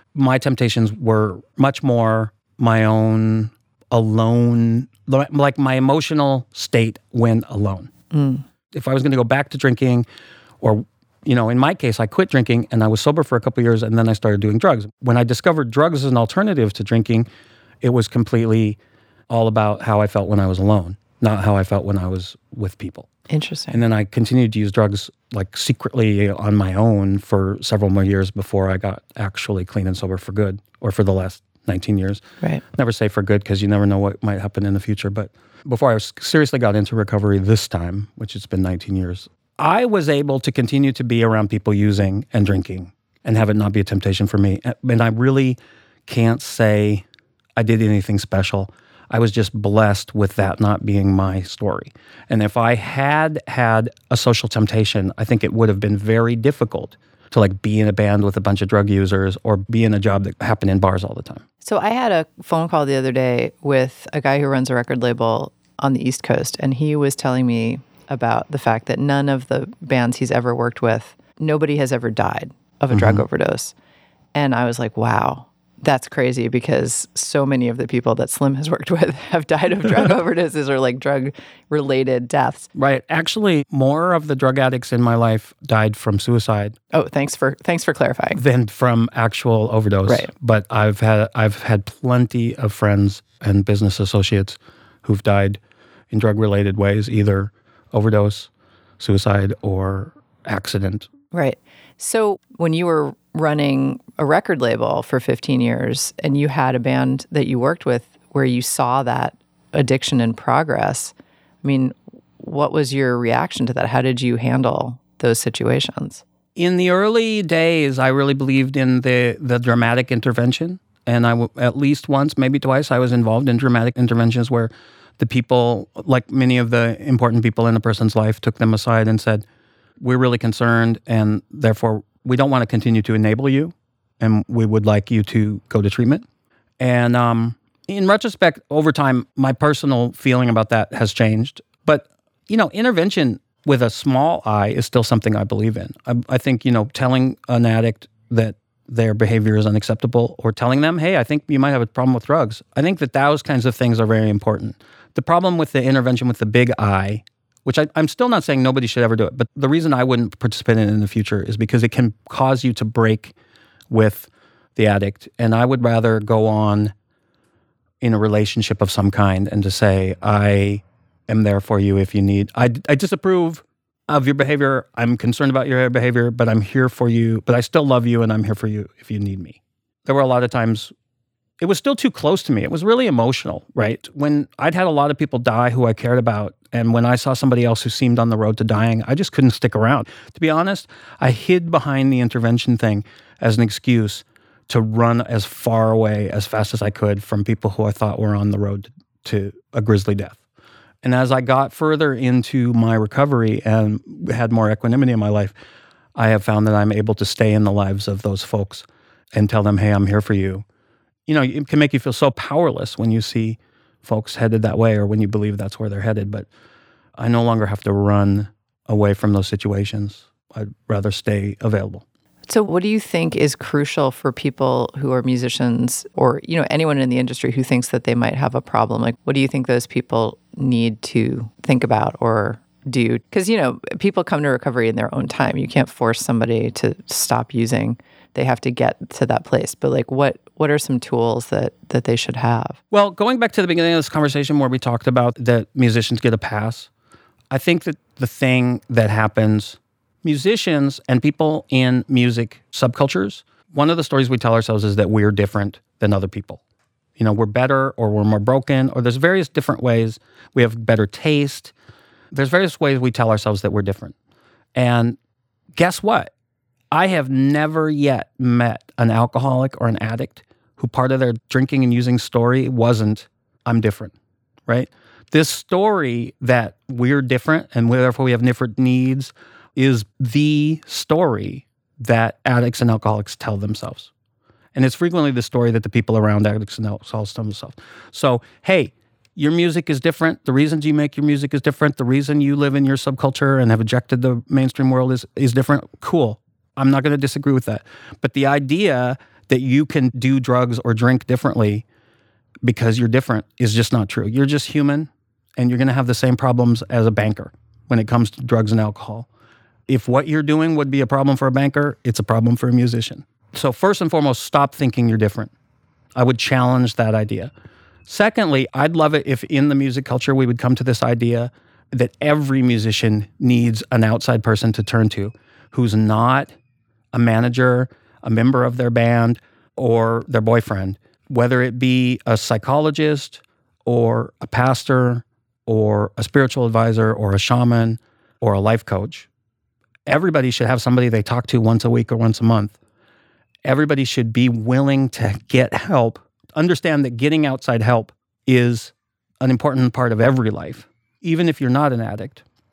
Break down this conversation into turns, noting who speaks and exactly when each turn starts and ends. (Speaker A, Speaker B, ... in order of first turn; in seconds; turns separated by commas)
Speaker A: 0.1-7.9, Speaker B: 8.1-8.4, Speaker A: 8.7-10.1, Speaker A: 10.6-17.3, Speaker A: 17.8-18.8, Speaker A: 19.3-23.1, Speaker B: 23.3-23.8, Speaker A: 23.7-32.2, Speaker A: 32.7-47.0, Speaker A: 47.6-61.4, Speaker B: 61.6-73.7, Speaker A: 72.9-73.2, Speaker B: 74.3-82.7, Speaker A: 82.8-86.8, Speaker B: 86.9-88.4, Speaker A: 88.3-95.6, Speaker A: 96.1-101.1, Speaker B: 101.3-116.2, Speaker A: 116.5-129.4, Speaker A: 130.0-136.2, Speaker A: 136.8-163.3, Speaker A: 163.9-166.9, Speaker A: 168.0-180.9, Speaker A: 181.6-200.4, Speaker A: 201.0-205.5, Speaker A: 206.2-210.6, Speaker A: 211.3-216.5, Speaker A: 217.2-222.0, Speaker B: 222.5-242.8, Speaker A: 242.9-246.9, Speaker A: 247.5-256.6, Speaker A: 257.2-261.7, Speaker A: 262.3-264.1, Speaker A: 264.7-265.2, Speaker A: 265.8-266.3, Speaker A: 266.9-274.1, Speaker A: 274.7-284.1, Speaker A: 284.7-301.8, Speaker A: 302.6-309.3, Speaker A: 309.9-315.5, Speaker A: 316.1-317.5, Speaker A: 318.1-326.5, Speaker A: 327.1-339.3, Speaker A: 340.1-342.8, Speaker A: 343.6-352.4